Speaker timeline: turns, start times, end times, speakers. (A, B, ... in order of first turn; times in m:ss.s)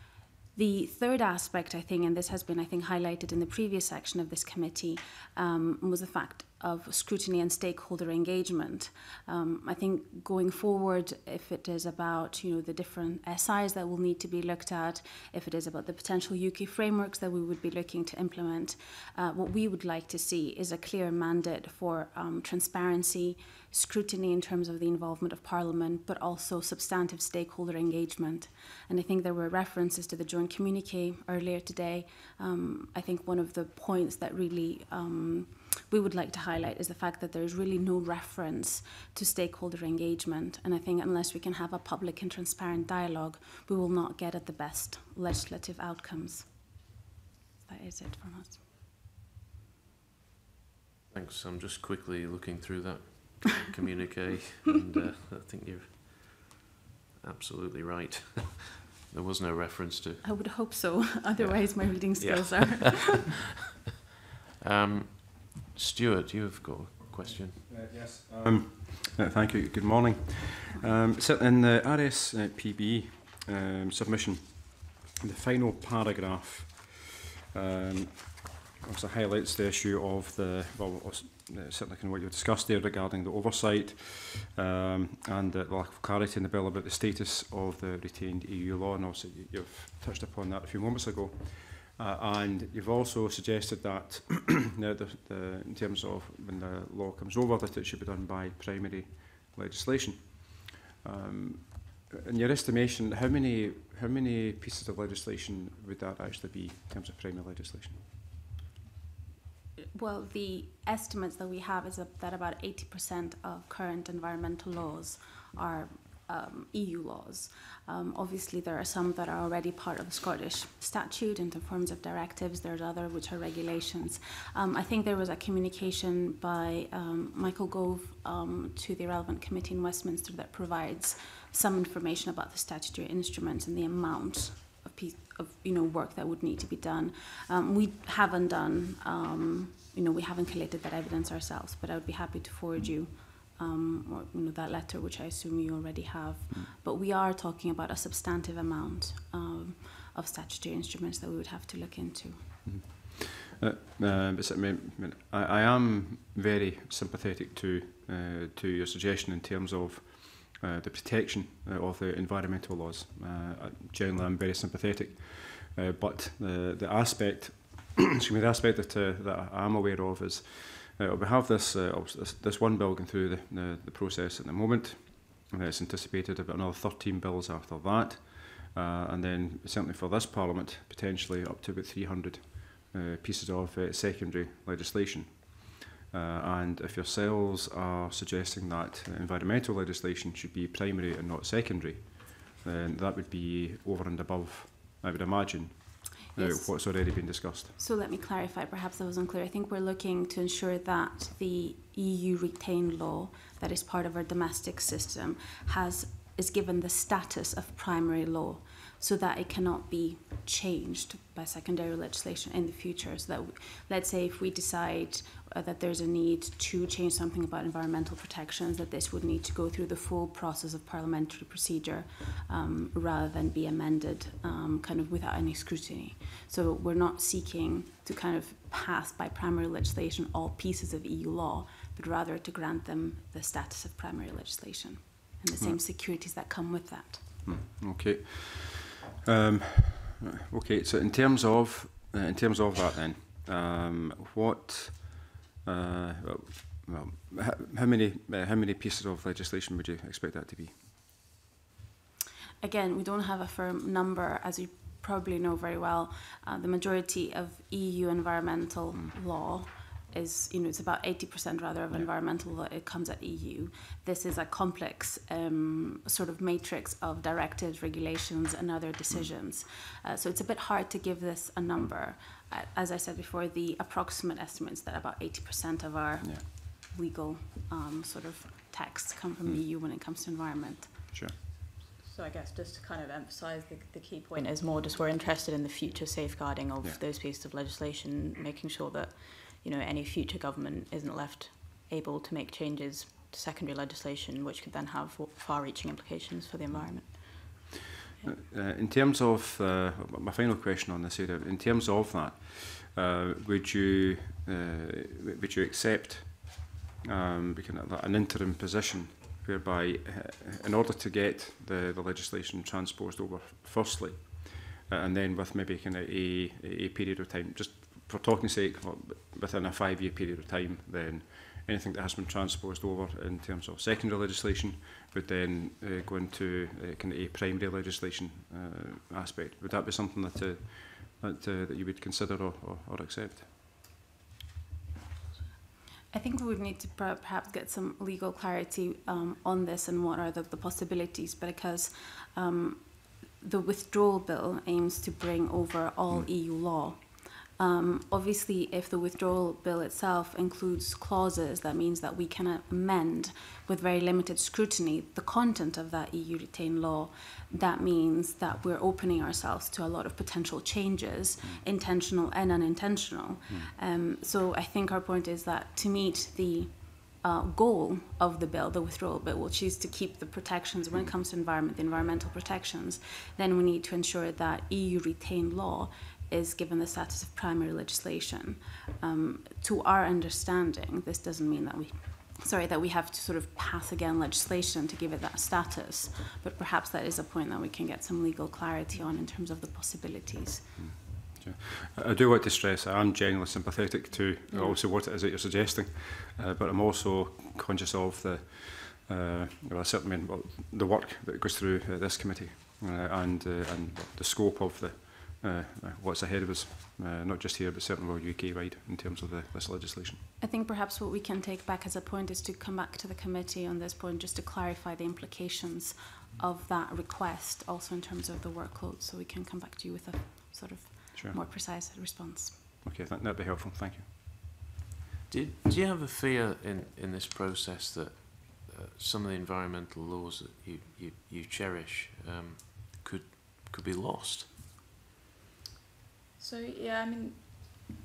0:00.5-0:46.7 A
0:47.7-0:48.6 A
0:51.1-0:56.5 B
0:57.2-1:00.2 B
1:00.2-1:03.3 A
1:01.4-1:03.4 B
1:04.6-1:07.6 B
1:07.6-1:48.0 C
1:50.0-2:32.4 A
2:32.6-3:17.7 C
3:16.3-3:16.8 A
3:17.8-3:57.4 A
3:57.4-4:10.8 C
4:12.6-4:41.0 A
4:42.0-4:57.6 D
4:56.7-4:57.6 C
4:58.2-5:33.5 C
5:36.1-5:47.1 A
5:47.6-6:30.7 A
6:30.8-6:50.2 C
6:34.5-6:34.8 A
6:50.4-7:02.6 A
7:02.8-7:04.1 C
7:05.3-7:14.5 B
7:16.4-7:17.7 D